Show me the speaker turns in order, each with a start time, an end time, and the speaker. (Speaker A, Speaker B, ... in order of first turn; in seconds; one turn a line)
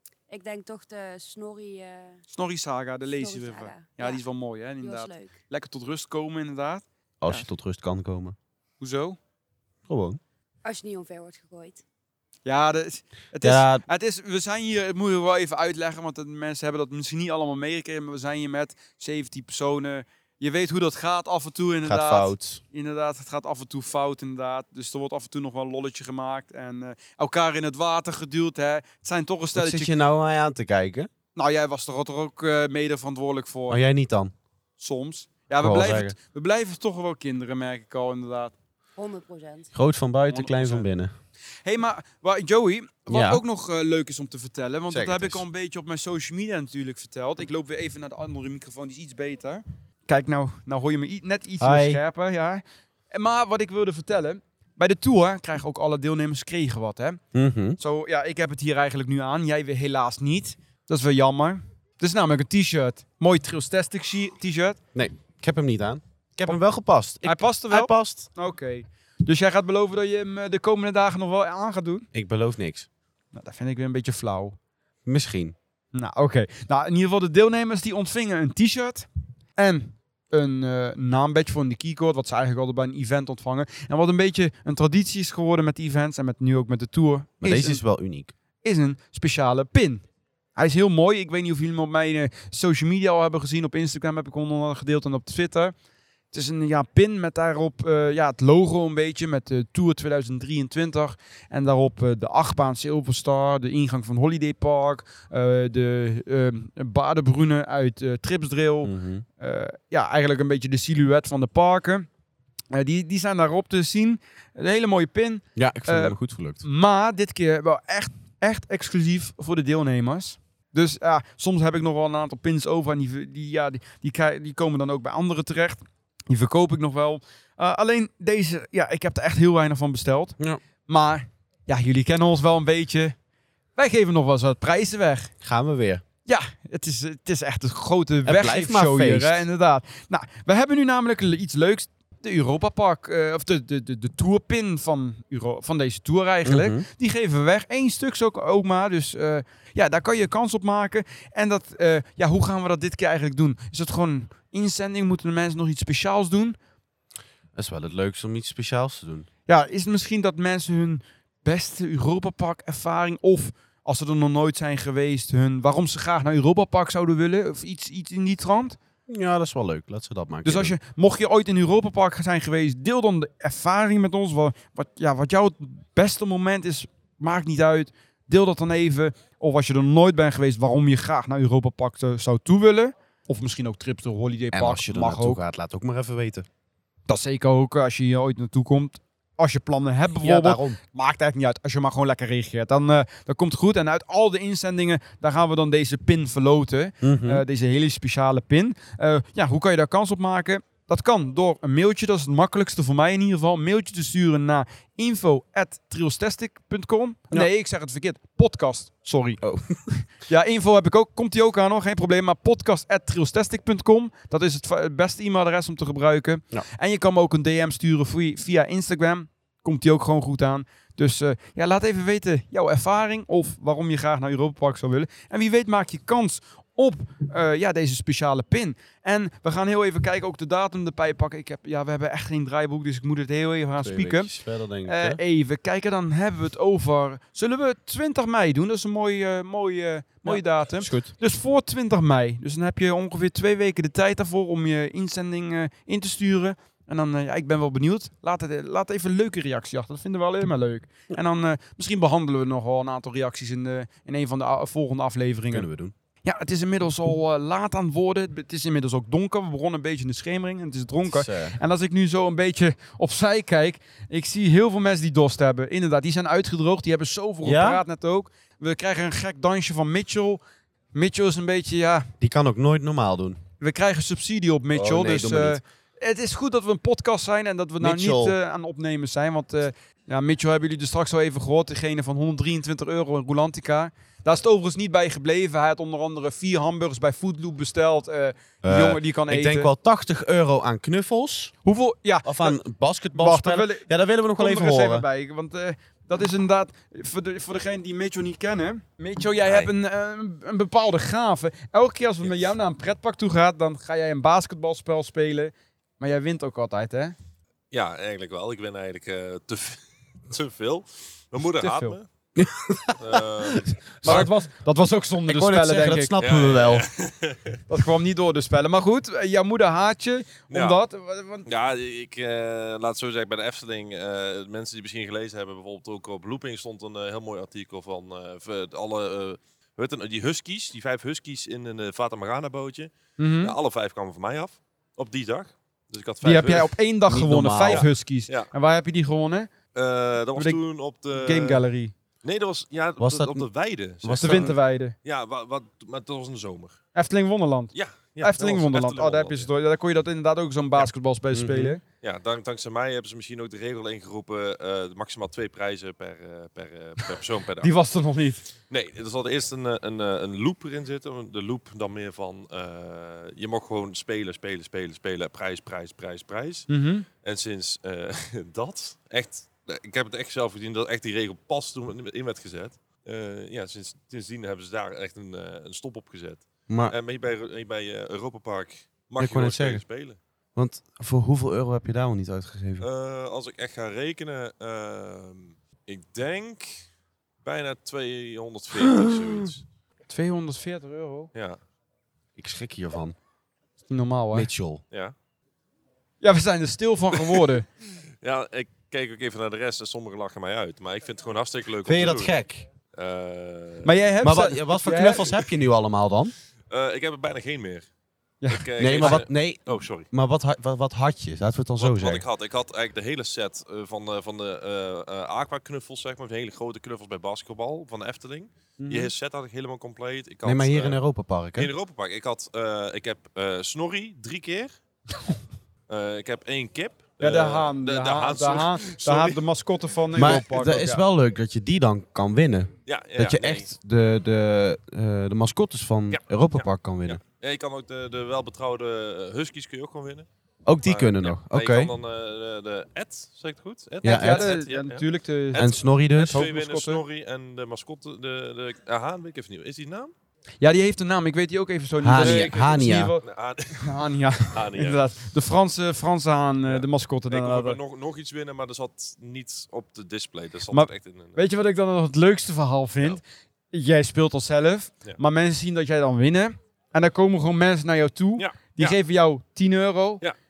Speaker A: 0.3-2.2
Speaker B: 2.3-7.5
Speaker A: 3.2-4.2
Speaker A: 4.8-5.4
Speaker C: 7.2-8.3
Speaker B: 8.8-9.2
Speaker C: 9.9-10.2
Speaker A: 10.6-11.8
Speaker B: 12.4-29.9
Speaker C: 13.4-13.8
Speaker C: 21.8-22.6
Speaker C: 29.5-31.1
Speaker B: 31.3-33.8
Speaker C: 33.7-34.3
Speaker B: 34.8-38.5
Speaker C: 35.6-36.1
Speaker A: 39.0-39.7
Speaker C: 39.7-41.1
Speaker B: 40.3-40.9
Speaker B: 41.6-57.2
Speaker C: 43.1-43.4
Speaker C: 44.9-45.4
Speaker C: 51.6-52.0
Speaker C: 57.3-57.8
Speaker B: 57.8-64.8
Speaker C: 64.9-68.3
Speaker B: 67.2-72.1
Speaker C: 72.1-72.9
Speaker B: 73.3-74.6
Speaker C: 75.0-75.5
Speaker B: 75.9-79.0
Speaker B: 79.6-87.8
Speaker C: 87.4-88.3
Speaker B: 88.6-90.0
Speaker B: 90.5-95.7
Speaker B: 96.3-112.1
Speaker C: 108.8-109.2
Speaker B: 112.7-133.1
Speaker C: 115.5-116.6
Speaker B: 133.8-135.3
Speaker C: 135.4-136.0
Speaker B: 136.2-156.6
Speaker C: 138.2-139.4
Speaker C: 146.4-146.8
Speaker C: 157.5-159.3
Speaker B: 159.5-168.8
Speaker C: 169.1-170.8
Speaker B: 170.4-185.4
Speaker C: 184.5-186.5
Speaker B: 187.1-209.4
Speaker C: 190.2-190.8
Speaker C: 197.0-197.4
Speaker C: 209.4-209.8
Speaker B: 210.2-234.3
Speaker C: 233.8-235.2
Speaker B: 234.8-255.7
Speaker C: 240.2-241.1
Speaker C: 255.5-255.9
Speaker B: 256.2-270.4
Speaker C: 261.1-261.6
Speaker C: 267.4-267.8
Speaker B: 270.9-272.1
Speaker C: 272.2-273.4
Speaker B: 273.6-289.7
Speaker C: 274.7-275.6
Speaker C: 277.8-278.4
Speaker C: 288.6-291.5
Speaker B: 291.6-292.6
Speaker C: 292.2-295.1
Speaker B: 293.1-307.1
Speaker D: 299.4-299.7
Speaker D: 302.2-302.5
Speaker D: 307.7-312.1
Speaker B: 311.6-312.0
Speaker C: 312.4-314.3
Speaker D: 313.0-314.3
Speaker B: 314.0-316.1
Speaker C: 315.2-316.9
Speaker D: 316.2-317.6
Speaker B: 317.7-321.4
Speaker D: 320.5-320.8
Speaker D: 321.5-336.8
Speaker B: 333.2-333.5
Speaker B: 336.2-339.5
Speaker C: 337.1-337.9
Speaker D: 337.7-338.5
Speaker D: 339.7-341.6
Speaker B: 341.1-341.9
Speaker D: 342.2-346.8
Speaker C: 343.0-343.4
Speaker C: 344.0-344.5
Speaker B: 344.2-344.9
Speaker B: 346.9-351.8
Speaker D: 347.7-349.5
Speaker C: 351.3-351.8
Speaker D: 352.0-357.7
Speaker B: 357.6-358.5
Speaker D: 358.7-366.7
Speaker B: 366.7-367.1
Speaker D: 367.2-380.2
Speaker C: 376.7-376.9
Speaker C: 379.2-379.8
Speaker C: 380.5-382.9
Speaker D: 382.8-386.9
Speaker D: 387.4-389.6
Speaker B: 390.1-391.3
Speaker D: 391.3-391.6
Speaker C: 392.4-393.1
Speaker B: 393.9-394.5
Speaker C: 394.3-394.8
Speaker B: 396.2-397.7
Speaker D: 398.2-402.3
Speaker C: 401.8-402.7
Speaker D: 402.9-404.0
Speaker B: 403.8-405.3
Speaker C: 404.2-406.3
Speaker D: 406.7-407.8
Speaker B: 408.4-409.2
Speaker D: 408.5-410.1
Speaker C: 408.8-412.2
Speaker D: 411.8-421.0
Speaker C: 418.8-419.1
Speaker C: 420.4-421.7
Speaker D: 421.6-424.7
Speaker D: 425.9-429.4
Speaker B: 427.2-431.0
Speaker C: 430.1-437.2
Speaker D: 432.9-433.7
Speaker D: 436.1-440.3
Speaker C: 440.6-441.9
Speaker D: 440.8-450.1
Speaker C: 444.0-444.5
Speaker B: 444.0-445.7
Speaker C: 445.6-446.5
Speaker B: 446.2-447.0
Speaker B: 450.6-453.2
Speaker C: 452.0-453.1
Speaker D: 452.2-454.0
Speaker B: 453.8-457.8
Speaker D: 454.5-455.0
Speaker D: 456.7-461.4
Speaker B: 460.7-463.2
Speaker B: 463.7-470.2
Speaker D: 468.4-469.0